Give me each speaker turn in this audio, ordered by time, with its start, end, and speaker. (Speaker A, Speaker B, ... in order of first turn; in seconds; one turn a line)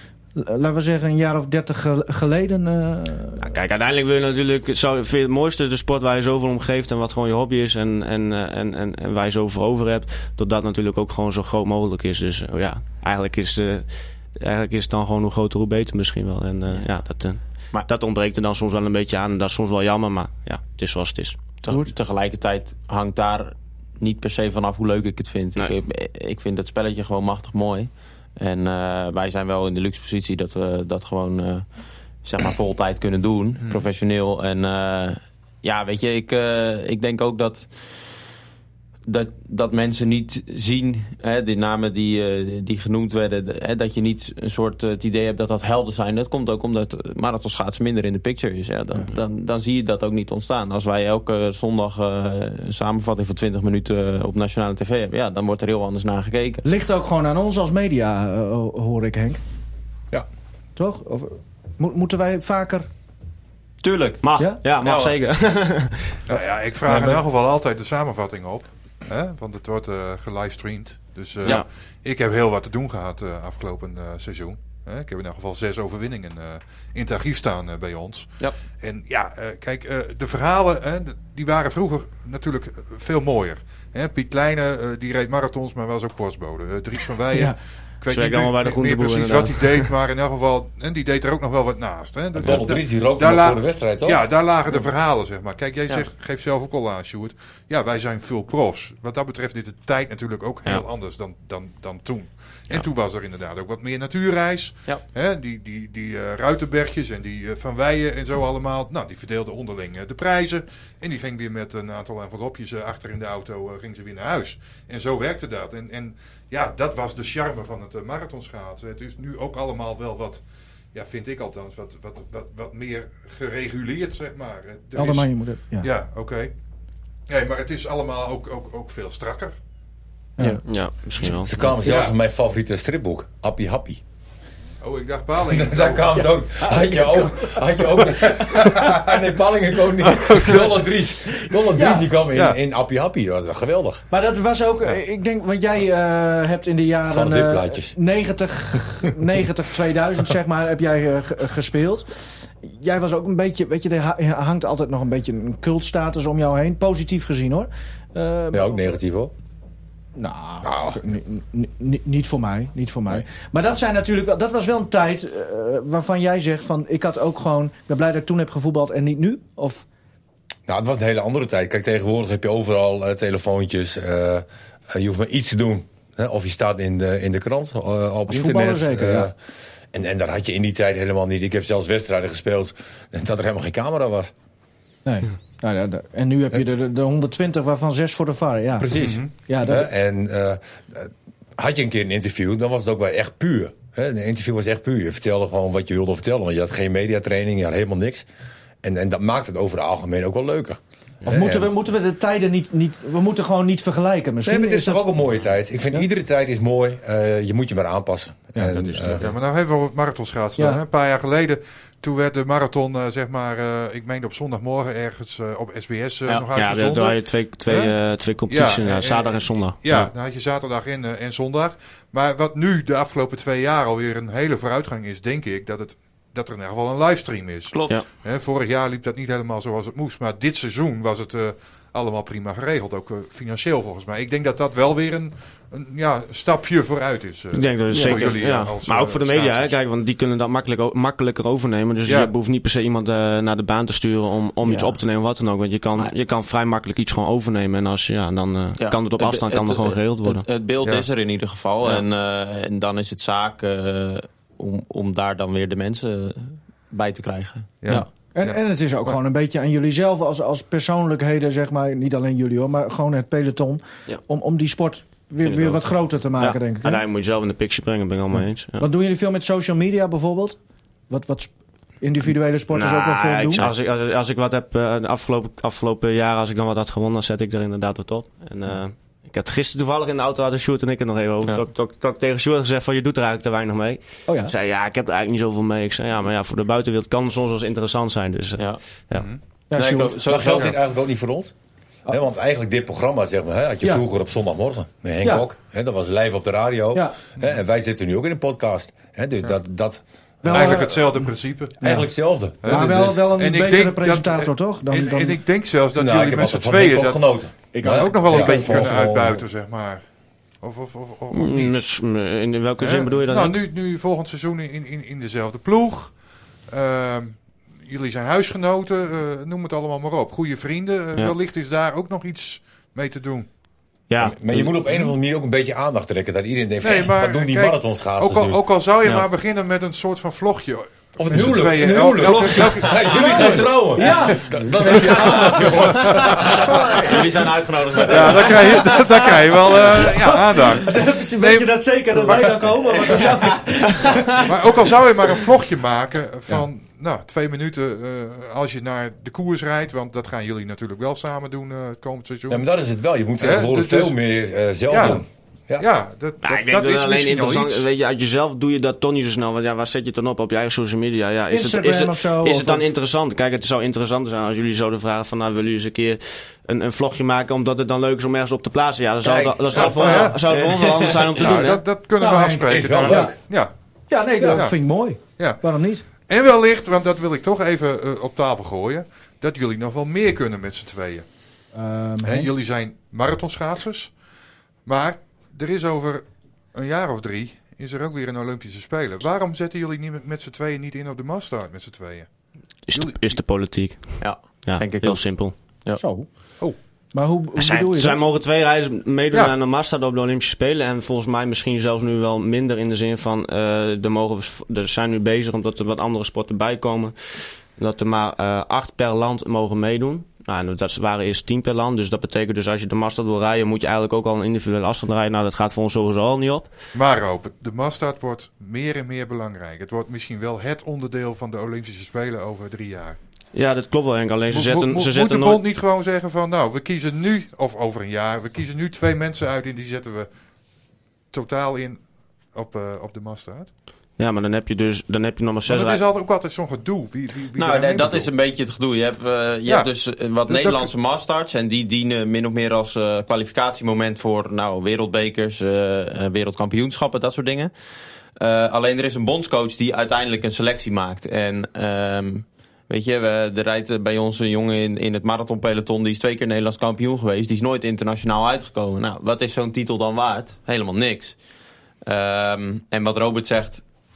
Speaker A: 0.3-3.5
Speaker B: 3.4-21.4
Speaker C: 21.6-37.9
Speaker C: 39.0-56.6
Speaker A: 56.6-59.4
Speaker A: 60.8-62.9
Speaker C: 63.8-64.2
Speaker B: 64.2-66.2
Speaker C: 64.8-65.2
Speaker D: 66.3-126.5
Speaker E: 66.8-67.2
Speaker B: 88.1-89.9
Speaker E: 92.3-94.3
Speaker A: 124.9-125.9
Speaker D: 127.3-129.6
Speaker B: 130.6-131.8
Speaker E: 131.2-134.0
Speaker D: 131.8-132.1
Speaker D: 134.8-136.2
Speaker E: 135.4-144.0
Speaker A: 136.7-137.0
Speaker D: 138.0-138.9
Speaker D: 140.0-140.8
Speaker A: 141.7-142.1
Speaker D: 142.3-142.6
Speaker A: 144.1-158.7
Speaker E: 147.0-147.9
Speaker E: 158.5-159.3
Speaker A: 160.2-169.8
Speaker E: 160.6-161.0
Speaker E: 170.7-179.3
Speaker A: 178.3-179.3
Speaker E: 179.9-184.3
Speaker A: 185.0-189.9
Speaker E: 188.8-198.2
Speaker D: 188.9-189.3
Speaker E: 198.8-201.7
Speaker A: 201.2-205.0
Speaker E: 204.4-209.2
Speaker B: 208.7-209.2
Speaker D: 209.2-217.9
Speaker A: 210.6-210.8
Speaker B: 216.5-220.1
Speaker D: 218.5-239.8
Speaker C: 227.7-228.0
Speaker B: 237.5-250.5
Speaker C: 237.9-238.4
Speaker D: 242.1-242.3
Speaker C: 244.6-244.9
Speaker C: 248.8-258.1
Speaker D: 257.8-259.1
Speaker A: 258.3-267.0
Speaker B: 265.4-268.9
Speaker A: 268.8-273.7
Speaker B: 272.7-289.2
Speaker A: 284.2-284.5
Speaker C: 288.6-290.7
Speaker A: 289.7-290.2
Speaker E: 290.3-291.5
Speaker E: 292.1-300.8
Speaker A: 300.4-301.3
Speaker D: 300.5-301.8
Speaker A: 301.8-302.1
Speaker E: 301.8-303.2
Speaker D: 302.6-307.3
Speaker A: 302.6-305.4
Speaker E: 305.9-309.4
Speaker A: 307.7-308.5
Speaker D: 307.8-310.0
Speaker B: 308.3-308.6
Speaker D: 310.6-311.8
Speaker B: 311.3-313.6
Speaker D: 312.8-323.6
Speaker B: 324.1-324.9
Speaker E: 324.2-328.6
Speaker D: 326.8-336.5
Speaker E: 331.2-336.7
Speaker A: 333.5-335.7
Speaker A: 336.3-337.2
Speaker C: 336.8-338.9
Speaker D: 338.1-343.2
Speaker A: 339.7-344.5
Speaker B: 343.2-344.4
Speaker D: 344.4-352.6
Speaker E: 352.5-355.9
Speaker D: 353.4-354.1
Speaker D: 354.9-355.2
Speaker D: 355.8-357.9
Speaker B: 356.4-371.8
Speaker A: 361.5-362.9
Speaker E: 369.2-369.8
Speaker D: 369.7-373.7
Speaker C: 370.0-371.5
Speaker A: 372.2-373.4
Speaker E: 372.7-373.4
Speaker A: 374.1-376.0
Speaker D: 374.4-374.8
Speaker D: 376.2-381.2
Speaker A: 381.7-382.5
Speaker D: 382.2-384.1
Speaker D: 384.8-393.4
Speaker B: 392.9-395.5
Speaker C: 394.2-396.0
Speaker A: 396.0-396.3
Speaker A: 397.1-398.3
Speaker B: 397.6-416.7
Speaker D: 416.9-423.2
Speaker B: 423.5-425.6
Speaker D: 424.5-430.3
Speaker D: 431.3-433.7
Speaker B: 434.2-436.0
Speaker D: 435.7-438.3
Speaker C: 437.5-447.7
Speaker D: 440.5-440.9
Speaker C: 448.4-461.4
Speaker C: 462.1-463.8